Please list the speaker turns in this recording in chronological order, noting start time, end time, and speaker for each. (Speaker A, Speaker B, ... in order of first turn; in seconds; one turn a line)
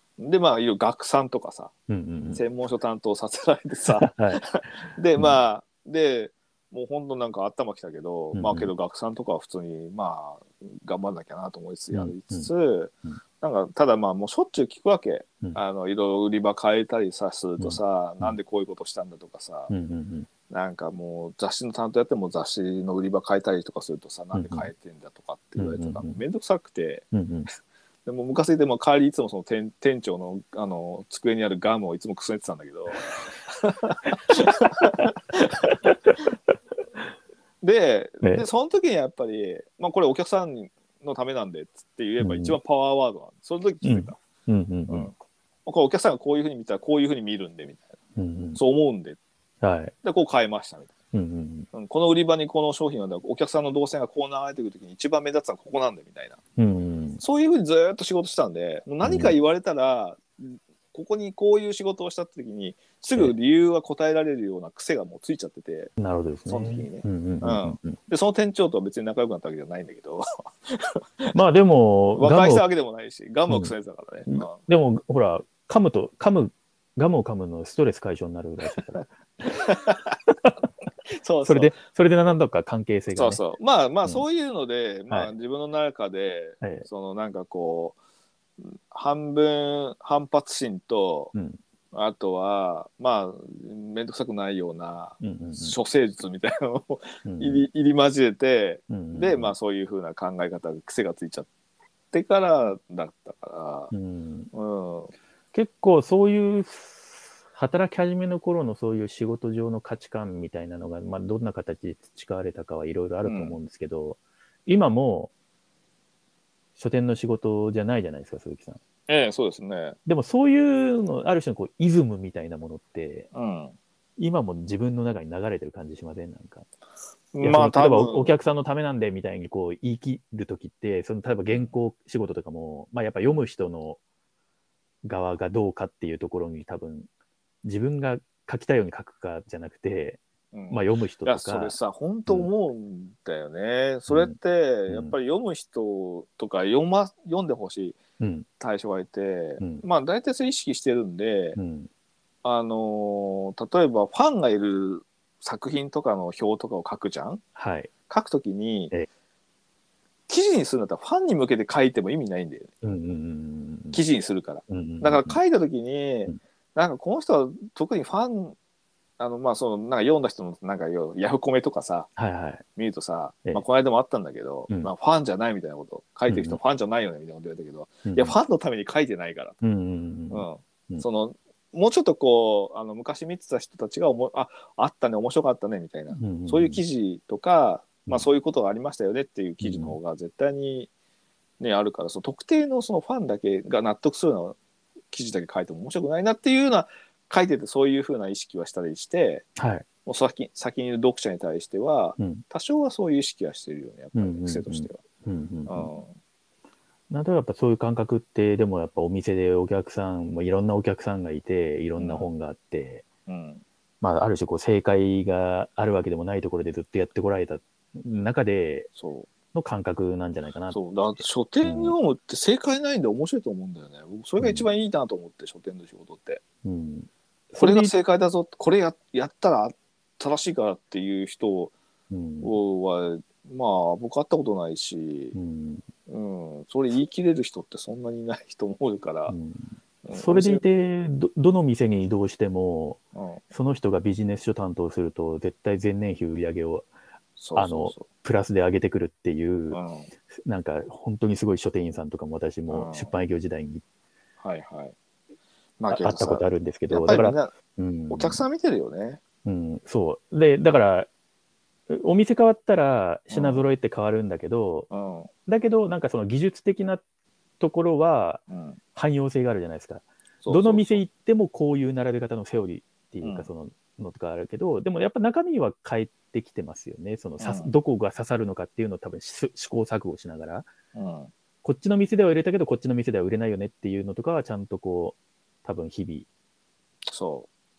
Speaker A: 0.2-1.7
Speaker B: 1.9-2.4
Speaker A: 2.3-19.7
Speaker B: 3.9-4.4
Speaker B: 8.3-8.7
Speaker B: 11.9-12.5
Speaker B: 17.6-18.4
Speaker B: 19.7-20.3
Speaker A: 20.5-27.1
Speaker B: 24.3-24.7
Speaker B: 25.6-26.2
Speaker B: 27.1-27.5
Speaker A: 28.1-35.8
Speaker B: 35.8-36.2
Speaker A: 37.6-44.2
Speaker B: 42.2-42.5
Speaker B: 43.8-45.1
Speaker A: 44.9-45.1
Speaker A: 45.6-47.9
Speaker B: 48.1-48.6
Speaker A: 48.5-49.2
Speaker B: 49.6-49.9
Speaker A: 50.0-51.0
Speaker B: 51.1-51.7
Speaker A: 51.7-56.4
Speaker B: 56.6-57.2
Speaker A: 57.2-65.9
Speaker B: 59.0-59.3
Speaker B: 66.0-68.0
Speaker A: 66.5-71.3
Speaker B: 71.3-72.7
Speaker A: 72.2-74.6
Speaker B: 74.3-79.6
Speaker A: 78.8-80.1
Speaker A: 81.1-81.7
Speaker B: 81.4-83.4
Speaker A: 83.1-88.0
Speaker B: 86.6-86.9
Speaker A: 88.6-91.3
Speaker B: 91.3-91.6
Speaker A: 91.9-101.5
Speaker B: 95.2-95.7
Speaker B: 97.2-97.7
Speaker B: 98.9-99.5
Speaker A: 102.1-103.9
Speaker B: 103.9-104.5
Speaker A: 104.5-105.1
Speaker B: 105.5-115.3
Speaker A: 113.2-113.5
Speaker B: 116.8-118.8
Speaker A: 119.1-120.0
Speaker B: 120.0-123.3
Speaker A: 123.3-123.8
Speaker B: 124.2-126.7
Speaker A: 127.3-128.3
Speaker B: 127.4-134.0
Speaker B: 135.0-137.1
Speaker B: 137.6-141.8
Speaker A: 140.5-148.0
Speaker B: 144.1-144.3
Speaker B: 144.9-145.1
Speaker B: 148.2-148.5
Speaker A: 148.6-151.6
Speaker B: 151.6-151.9
Speaker A: 152.4-157.4
Speaker B: 157.6-157.9
Speaker A: 158.1-158.9
Speaker A: 160.3-162.7
Speaker B: 162.8-164.0
Speaker A: 163.9-168.6
Speaker B: 164.7-165.4
Speaker A: 169.2-172.1
Speaker B: 172.2-172.6
Speaker A: 172.8-179.6
Speaker B: 176.3-176.6
Speaker B: 178.1-178.3
Speaker B: 179.6-181.0
Speaker A: 180.3-190.9
Speaker B: 186.2-186.8
Speaker B: 189.6-189.9
Speaker A: 191.6-194.6
Speaker A: 195.1-199.5
Speaker B: 199.6-199.8
Speaker A: 200.0-205.0
Speaker B: 202.2-202.4
Speaker B: 204.1-205.9
Speaker A: 205.7-206.1
Speaker B: 207.1-213.0
Speaker A: 212.0-212.3
Speaker A: 213.3-213.6
Speaker B: 214.0-218.9
Speaker A: 218.9-219.3
Speaker B: 219.5-220.8
Speaker A: 220.7-226.4
Speaker B: 221.6-221.9
Speaker B: 224.4-224.7
Speaker B: 226.6-227.9
Speaker A: 227.6-231.7
Speaker B: 232.1-232.6
Speaker A: 232.4-235.3
Speaker B: 235.3-235.8
Speaker A: 236.1-239.3
Speaker B: 239.3-243.0
Speaker A: 240.0-240.6
Speaker A: 243.1-243.4
Speaker B: 243.5-246.9
Speaker A: 247.4-248.1
Speaker B: 247.5-249.8
Speaker A: 249.7-250.1
Speaker B: 250.4-253.8
Speaker A: 252.7-253.1
Speaker A: 254.4-254.9
Speaker A: 255.8-257.5
Speaker B: 255.9-258.4
Speaker A: 258.1-259.2
Speaker B: 259.4-261.1
Speaker B: 261.9-264.9
Speaker A: 263.3-263.7
Speaker A: 264.9-265.3
Speaker B: 265.4-267.0
Speaker B: 267.6-268.4
Speaker A: 268.5-268.8
Speaker B: 268.9-280.7
Speaker A: 270.4-271.0
Speaker A: 273.2-273.5
Speaker A: 277.4-277.7
Speaker A: 280.9-281.3
Speaker B: 281.6-286.3
Speaker A: 287.1-287.5